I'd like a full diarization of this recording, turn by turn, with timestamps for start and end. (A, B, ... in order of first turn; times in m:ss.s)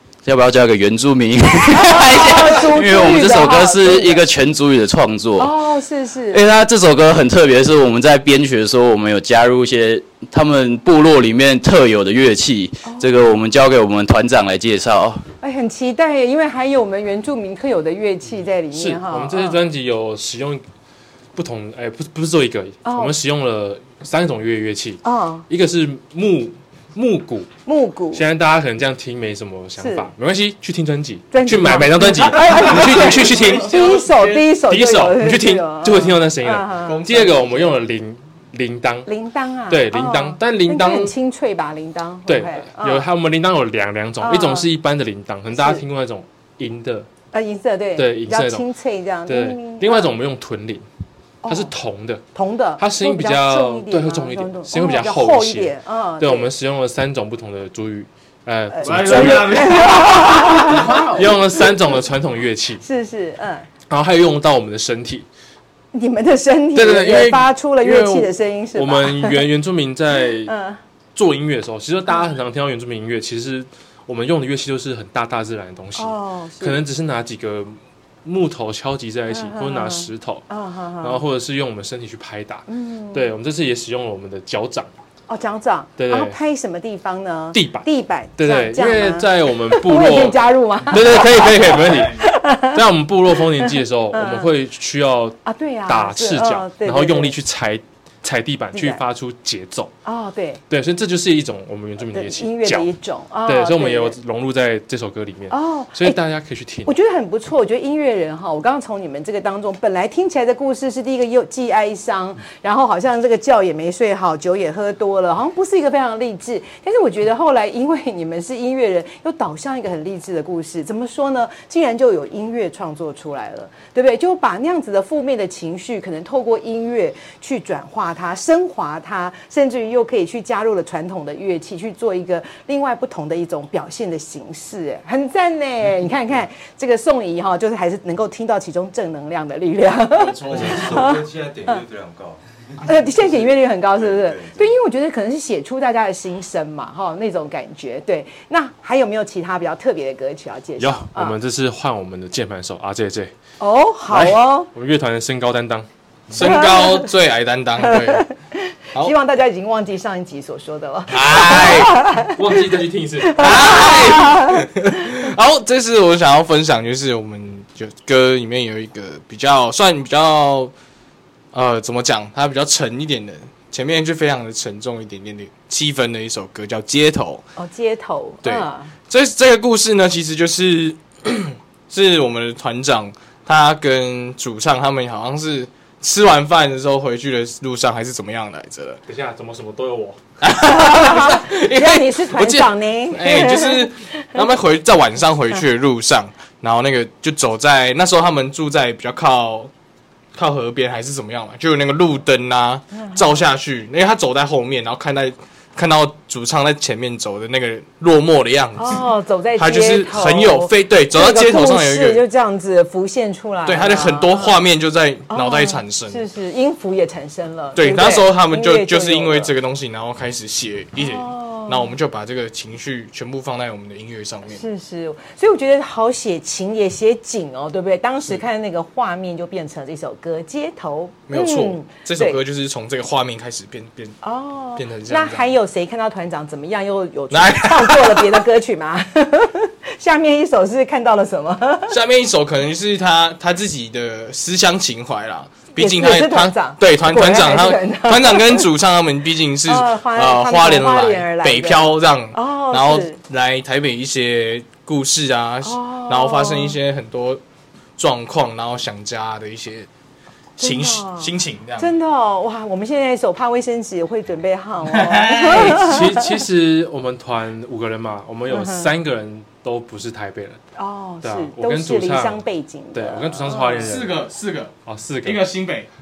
0:00.2-0:05.5 A
0:01.6-0:04.2 B
0:05.4-0:06.4 B
0:06.3-0:15.2 A
0:15.4-0:19.6 B
0:18.7-0:20.6 C
0:21.3-0:27.5 C
0:22.8-0:23.1 B
0:25.0-0:25.4 B
0:27.6-0:28.2 B
0:28.1-0:33.8 C
0:29.8-0:30.1 B
0:31.3-0:37.0 B
0:32.6-0:34.5 D
0:34.6-0:39.1 C
0:36.8-0:37.8 D
0:39.1-0:43.1 B
0:39.7-0:41.1 C
0:42.3-0:47.1 C
0:44.2-0:44.7 B
0:45.5-0:45.8 B
0:47.3-0:50.1 B
0:48.0-0:48.6 C
0:49.3-0:50.8 C
0:51.4-0:51.7 B
0:51.5-0:52.2 C
0:52.3-0:56.5 B
0:52.8-1:02.8 C
0:58.7-1:01.0 B
0:58.9-1:00.3 D
1:02.8-1:03.7 B
1:03.9-1:05.2 C
1:05.9-1:09.5 B
1:06.7-1:10.5 C
1:10.4-1:10.8 B
1:11.1-1:20.4 C
1:16.0-1:16.8 B
1:19.3-1:21.2 B
1:21.0-1:24.9 C
1:22.7-1:23.3 B
1:25.3-1:32.8 B
1:26.0-1:26.4 C
1:27.5-1:39.9 C
1:33.5-1:34.5 B
1:35.4-1:37.4 B
1:38.7-1:39.0 B
1:40.0-1:40.6 B
1:40.7-1:42.9 C
1:42.1-1:44.2 B
1:43.4-1:46.9 C
1:45.5-1:46.2 B
1:46.8-2:21.8 B
2:20.1-2:21.1 D
2:20.5-2:22.4 E
2:22.8-2:31.4 B
2:23.0-2:24.7 E
2:30.8-2:33.3 C
2:33.6-2:34.7 B
2:34.1-2:36.6 C
2:36.3-2:38.3 D
2:36.4-2:37.1 B
2:37.9-2:42.5 B
2:41.1-2:42.0 D
2:42.2-2:43.9 C
2:43.2-2:44.6 B
2:43.3-2:50.7 D
2:51.5-2:57.4 D
2:57.6-2:58.9 B
2:58.4-3:09.0 D
3:09.1-3:10.2 C
3:10.4-3:19.7 D
3:10.6-3:13.9 B
3:20.3-3:32.2 D
3:23.0-3:23.4 B
3:28.8-3:34.6 B
3:33.6-3:36.2 D
3:35.3-3:39.5 B
3:37.8-3:44.6 D
3:41.0-3:41.9 B
3:44.5-3:52.4 B
3:51.3-3:54.2 D
3:54.2-4:02.0 B
3:54.8-3:55.5 D
3:57.3-3:58.4 D
4:01.9-4:17.4 D
4:05.8-4:08.6 B
4:09.7-4:13.2 B
4:15.6-4:16.8 B
4:18.0-4:19.9 D
4:20.6-4:21.9 D
4:20.6-4:26.4 B
4:24.8-4:25.9 D
4:25.4-4:30.6 C
4:28.5-4:28.9 B
4:30.8-4:33.9 B
4:31.2-4:32.4 C
4:32.9-4:34.2 C
4:33.8-4:35.9 D
4:34.8-4:35.5 C